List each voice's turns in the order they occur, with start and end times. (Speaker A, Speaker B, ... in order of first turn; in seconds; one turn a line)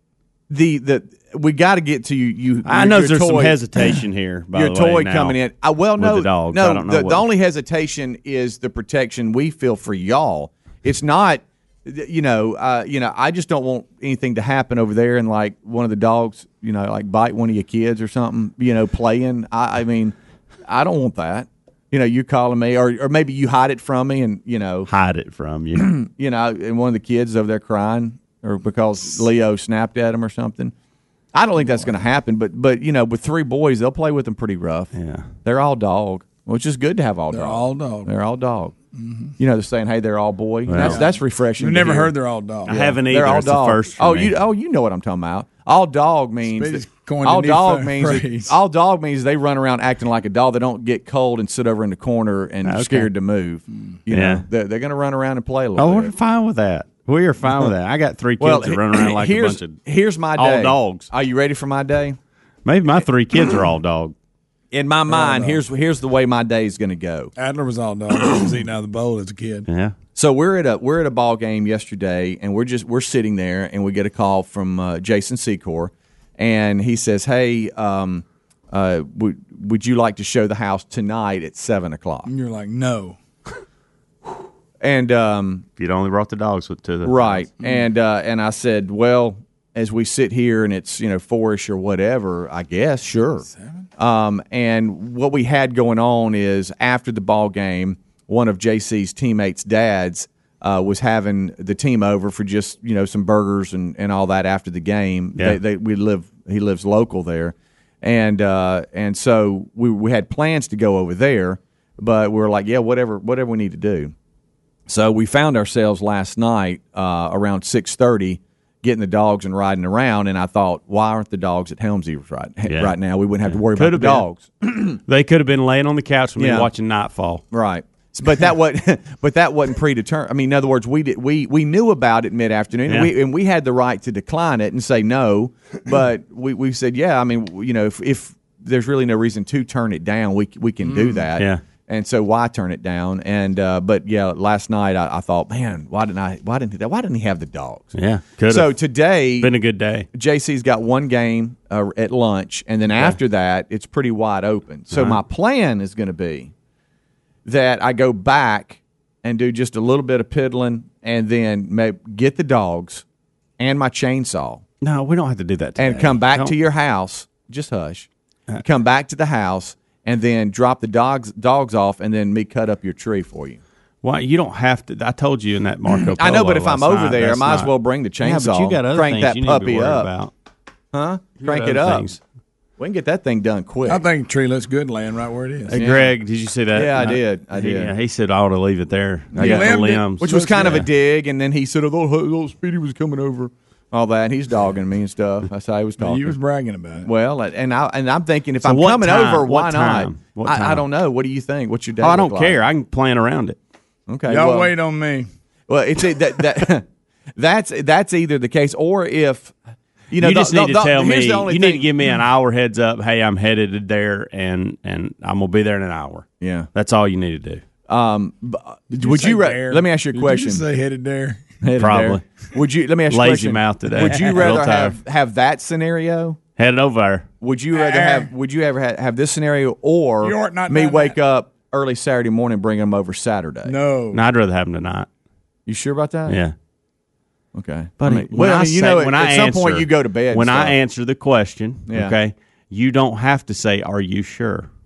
Speaker A: 0.5-3.6
Speaker B: 2.6-5.4
Speaker A: 4.5-20.1
Speaker B: 6.0-7.2
Speaker A: 20.6-24.9
Speaker B: 24.9-25.9
Speaker A: 25.8-30.7
Speaker A: 31.3-34.9
Speaker B: 34.9-35.2
Speaker A: 35.4-38.7
Speaker C: 37.3-38.1
Speaker C: 38.9-39.3
Speaker A: 39.4-42.1
Speaker B: 40.7-41.0
Speaker C: 40.8-42.8
Speaker A: 42.6-56.1
Speaker B: 42.7-44.3
Speaker C: 46.4-48.6
Speaker B: 52.6-53.1
Speaker B: 54.1-54.4
Speaker B: 55.8-59.8
Speaker A: 58.4-62.2
Speaker B: 60.4-61.1
Speaker B: 62.6-64.1
Speaker A: 64.7-67.3
Speaker C: 65.1-65.6
Speaker C: 67.4-69.7
Speaker B: 69.7-69.9
Speaker A: 70.2-82.3
Speaker C: 82.2-83.2
Speaker A: 84.8-85.6
Speaker B: 85.8-87.5
Speaker A: 87.0-93.5
Speaker C: 93.5-93.8
Speaker A: 94.0-114.1
Speaker A: 114.9-125.0
Speaker B: 122.7-124.2
Speaker B: 125.1-127.4
Speaker A: 126.4-126.7
Speaker A: 127.5-147.9
Speaker C: 140.8-141.2
Speaker B: 147.9-148.8
Speaker A: 148.5-149.5
Speaker B: 149.4-150.1
Speaker A: 150.1-156.5
Speaker B: 154.9-155.2
Speaker A: 157.4-163.0
Speaker A: 163.6-164.6
Speaker B: 164.8-166.6
Speaker A: 165.8-168.1
Speaker A: 168.6-173.6
Speaker B: 174.0-180.3
Speaker A: 176.2-180.1
Speaker A: 180.9-182.1
Speaker B: 181.4-182.2
Speaker A: 182.8-184.0
Speaker C: 183.8-185.8
Speaker A: 185.7-186.1
Speaker B: 185.7-190.9
Speaker A: 186.7-187.9
Speaker C: 189.3-190.8
Speaker A: 189.3-196.3
Speaker C: 196.0-197.1
Speaker A: 197.0-202.6
Speaker B: 198.6-200.8
Speaker B: 202.0-203.6
Speaker A: 204.1-204.7
Speaker C: 204.3-205.3
Speaker A: 205.7-206.8
Speaker A: 207.4-209.5
Speaker A: 210.1-211.9
Speaker B: 210.2-217.6
Speaker A: 216.4-216.7
Speaker A: 217.9-220.6
Speaker C: 218.9-221.4
Speaker A: 221.6-226.4
Speaker B: 221.8-222.2
Speaker B: 223.1-225.0
Speaker C: 223.9-224.6
Speaker B: 226.6-227.3
Speaker A: 227.4-233.8
Speaker C: 227.7-228.3
Speaker C: 230.2-231.2
Speaker C: 233.6-234.2
Speaker B: 234.1-235.1
Speaker A: 235.7-236.4
Speaker B: 236.3-236.5
Speaker A: 237.5-240.7
Speaker B: 238.0-244.7
Speaker A: 241.9-242.1